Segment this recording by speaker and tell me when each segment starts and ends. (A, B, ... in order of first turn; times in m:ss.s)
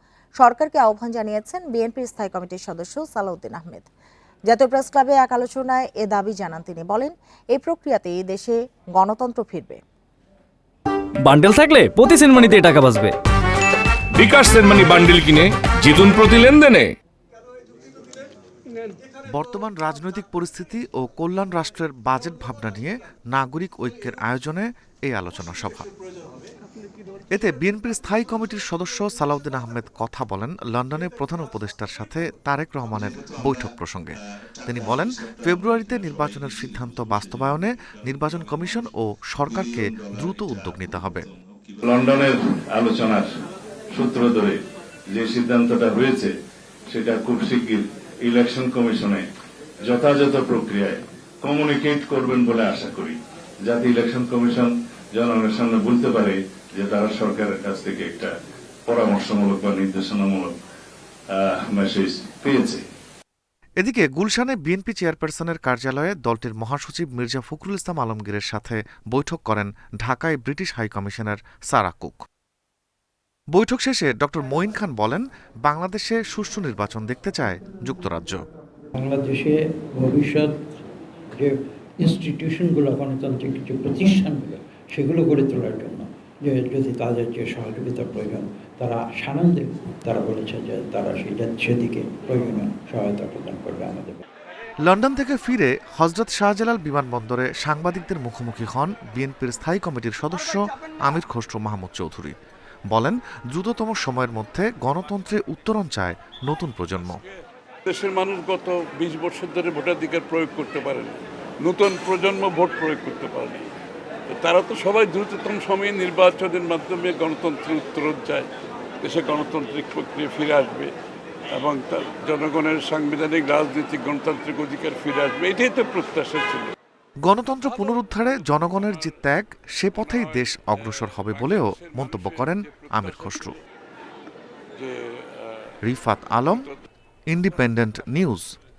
0:00.4-0:03.9 A
0:04.5-0:09.8 A
0:11.2-0:13.2 B
0:14.1-0:17.0 C
0:19.3-0:25.9 D
0:27.3-0:41.3 D
0:41.8-0:43.3 E
0:43.9-0:44.6 E
0:45.1-0:46.3 E
0:46.9-0:49.2 E
0:49.8-0:58.3 E
0:58.9-1:00.5 E
1:01.3-1:02.8 E
1:03.8-1:12.2 D
1:13.5-1:18.4 D
1:19.0-1:20.5 F
1:21.3-1:34.2 F
1:34.8-1:42.4 D
1:42.9-1:47.2 D
1:47.9-1:53.7 G
1:54.3-1:58.5 G
1:59.0-2:00.9 G
2:01.5-2:06.7 G
2:07.2-2:13.6 D
2:10.5-2:13.6 G
2:14.8-2:15.8 G
2:15.8-2:16.7 D
2:17.3-2:18.4 D